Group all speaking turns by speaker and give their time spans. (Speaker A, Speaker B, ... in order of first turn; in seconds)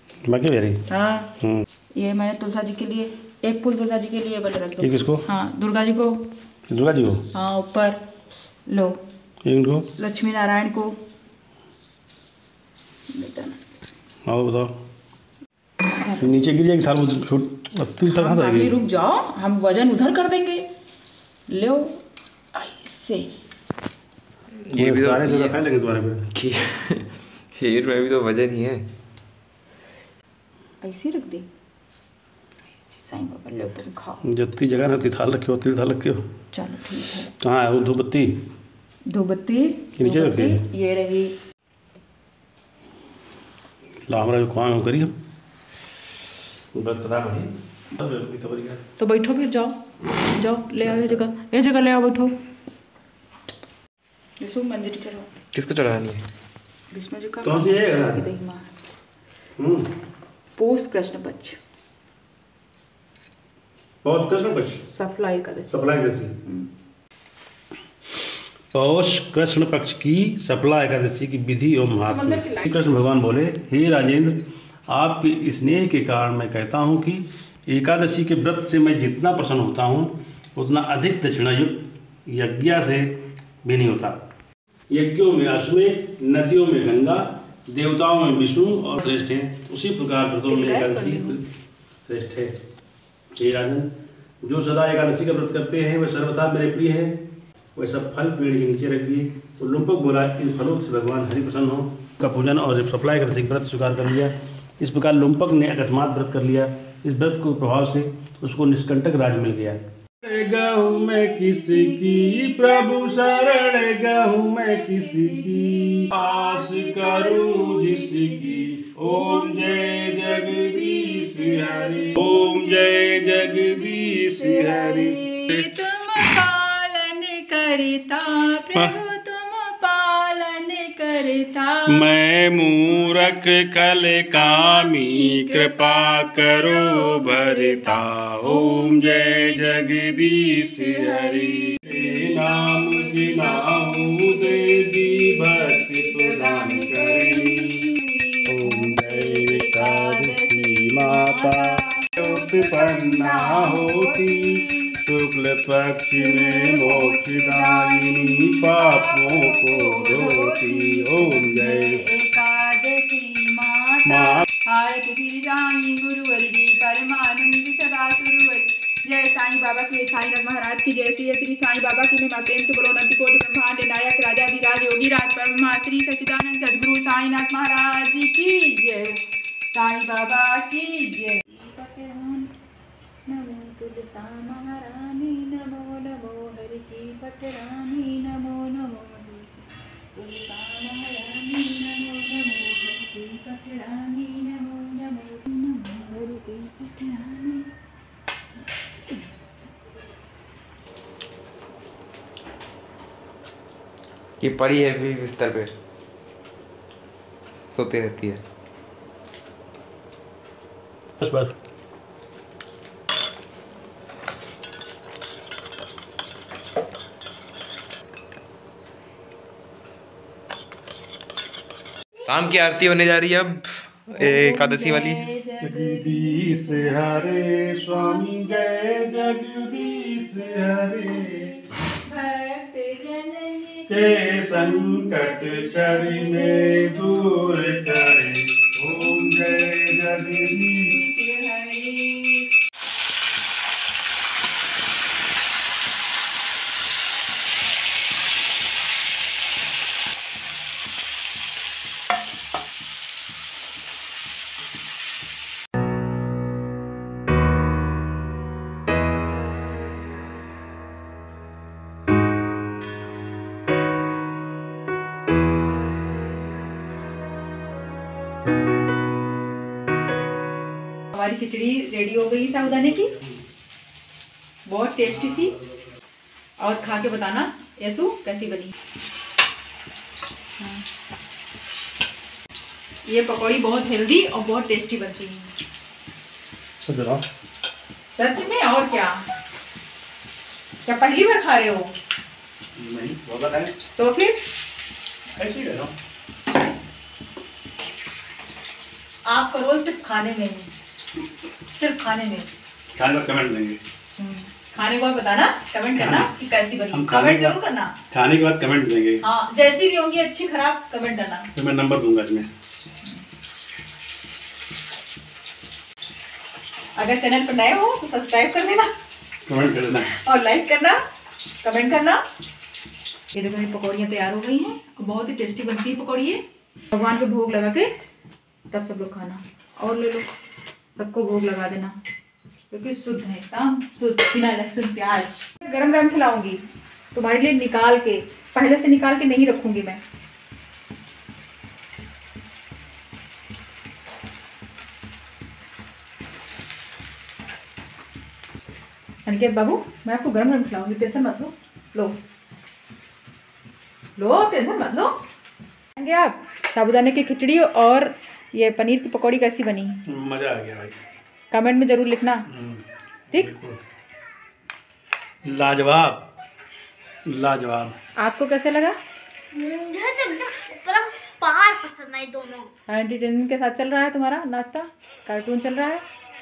Speaker A: 0.2-0.8, 4.8-5.2, 6.7-7.3, 9.4-9.9, 14.3-14.8, 16.2-18.8, 24.8-26.3, 34.2-36.2, 37.4-38.4, 40.0-40.6, 44.1-45.1, 46.7-48.8, 50.9-51.2, 57.4-58.2, 59.6-59.9, 64.0-64.8, 65.7-66.3, 68.7-84.2, 84.9-91.4, 92.0-92.5, 93.3-93.9, 94.4-97.2, 97.8-126.4, 131.9-147.8, 148.4-162.0, 164.1-164.4, 211.2-211.5, 225.6-231.5, 233.9-241.0, 286.9-287.2, 292.8-293.8, 295.4-295.9, 302.9-303.8, 306.0-306.3, 306.9-307.6, 308.1-309.2, 311.5-312.5, 319.5-320.1, 360.1-360.9, 362.5-363.8, 365.4-366.3, 367.2-367.9
Speaker B: 0.9-1.3, 1.9-6.2, 7.3-8.0, 8.7-9.0, 10.0-10.9, 13.1-13.6, 16.0-16.3, 18.1-20.6, 21.5-22.0, 22.5-23.3, 30.8-31.5, 32.9-34.2, 36.5-37.3, 39.1-41.3, 49.0-52.3, 54.4-55.3, 56.9-58.7, 60.5-61.6, 64.8-65.9, 66.4-66.7, 72.0-72.8, 90.5-91.4, 110.6-132.2, 132.9-133.4, 134.3-155.0, 156.2-182.5, 183.3-197.7, 199.1-199.7, 224.2-237.9, 238.9-242.5, 271.1-273.2, 274.6-275.6, 276.6-278.7, 280.6-280.8, 283.1-285.5, 288.1-289.2, 290.8-291.9, 293.9-294.5, 299.2-300.7, 301.7-302.5, 304.2-307.9, 309.2-311.5, 316.9-318.9, 320.0-321.0, 321.6-322.2, 323.3-327.9, 328.7-330.3, 330.9-332.0, 332.7-336.6, 337.1-340.0, 349.2-352.2, 354.2-355.1, 355.9-360.0, 361.5-362.5, 368.1-369.0, 372.9-376.0
Speaker C: 24.6-25.6, 26.3-28.9, 55.5-56.2, 204.4-205.7, 207.7-208.4, 222.2-225.2
Speaker D: 369.5-372.7